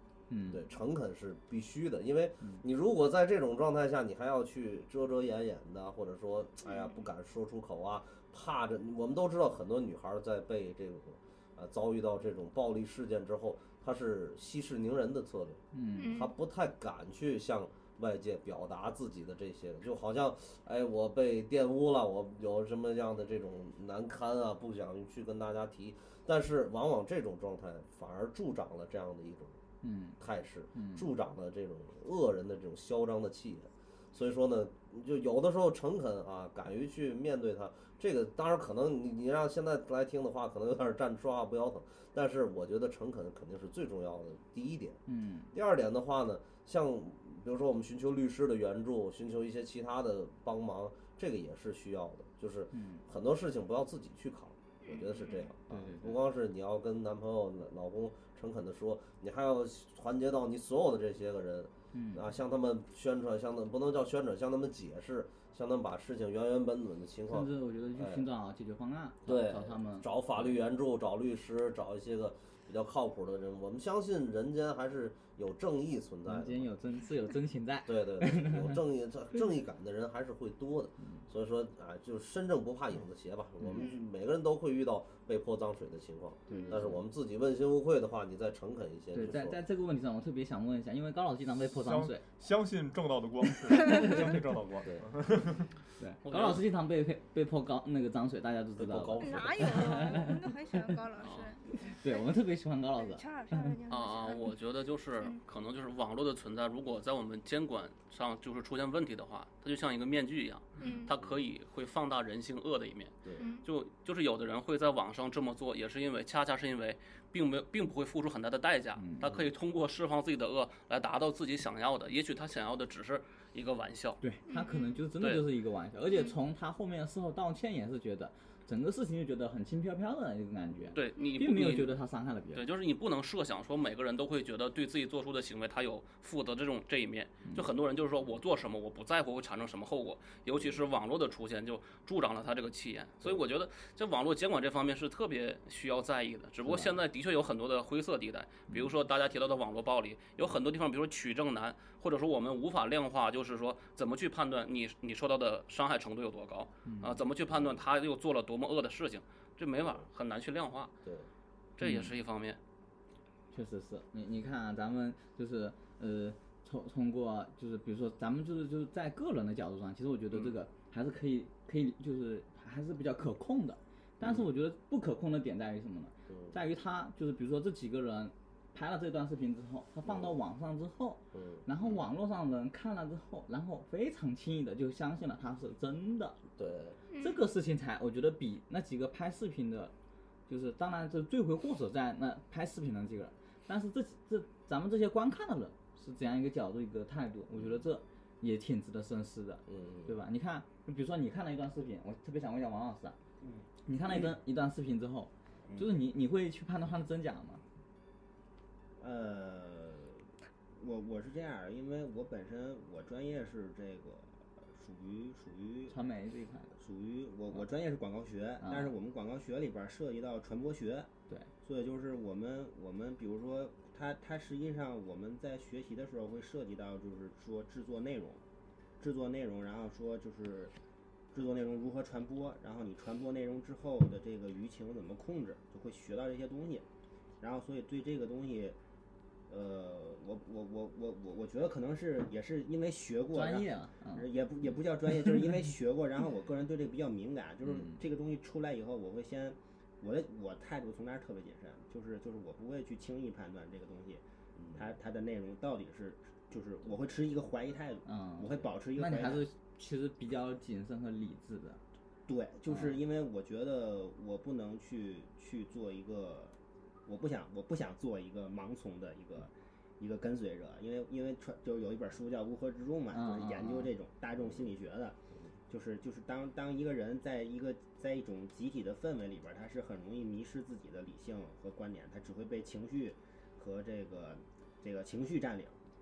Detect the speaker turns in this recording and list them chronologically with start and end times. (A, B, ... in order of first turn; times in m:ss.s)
0:00.3-0:00.6 A
0:00.5-0:29.6 B
0:06.6-0:07.0 C
0:15.7-0:16.1 A
0:16.0-0:16.3 C
0:29.8-0:30.2 A
0:30.2-0:45.0 B
0:30.7-0:31.1 A
0:45.1-0:45.5 A
0:45.5-1:08.3 B
0:52.7-0:53.0 A
0:54.8-0:55.5 C
0:55.7-0:56.2 A
1:01.9-1:02.2 A
1:07.3-1:10.5 A
1:09.3-1:16.7 B
1:16.3-1:18.8 A
1:17.8-1:29.6 B
1:26.5-1:26.8 C
1:26.7-1:27.0 A
1:29.1-1:32.2 A
1:31.7-1:35.8 D
1:33.5-1:34.3 A
1:36.0-1:40.8 A
1:36.3-1:36.6 E
1:38.8-1:40.1 B
1:39.2-1:42.3 C
1:41.2-1:41.5 E
1:41.9-1:43.7 A
1:43.0-1:44.6 C
1:43.9-2:04.2 E
1:50.8-1:51.1 C
1:51.2-1:51.5 B
1:53.4-1:53.7 C
1:59.0-1:59.3 A
1:59.2-1:59.5 B
2:04.2-2:12.6 A
2:04.5-2:05.0 C
2:10.9-2:11.9 E
2:12.5-2:40.9 E
2:20.6-2:20.8 B
2:26.7-2:27.0 A
2:36.8-2:37.2 A
2:37.5-2:37.8 B
2:41.8-2:42.6 E
2:41.8-2:42.1 A
2:43.5-3:06.4 A
2:54.2-2:54.5 B
2:56.3-2:56.6 B
3:00.0-3:00.4 B
3:01.3-3:02.0 B
3:06.6-3:07.0 B
3:07.1-3:07.4 C
3:07.2-3:09.9 A
3:10.5-3:23.2 A
3:17.6-3:17.8 B
3:19.7-3:20.2 B
3:23.4-3:24.3 F
3:23.9-3:27.6 A
3:29.0-3:36.0 F
3:35.9-3:36.7 A
3:36.8-3:41.1 F
3:38.6-3:38.9 A
3:41.6-3:48.4 F
3:49.0-3:50.7 F
3:51.3-3:56.8 F
3:57.4-3:58.8 F
3:59.5-4:14.2 F
4:03.3-4:04.3 A
4:05.1-4:05.5 A
4:07.6-4:08.0 A
4:14.6-4:14.8 B
4:14.7-4:19.5 F
4:18.1-4:21.8 A
4:22.3-4:26.6 F
4:22.7-4:23.0 A
4:27.1-4:35.2 F
4:33.1-4:33.9 A
4:34.4-4:34.7 B
4:35.7-4:45.8 F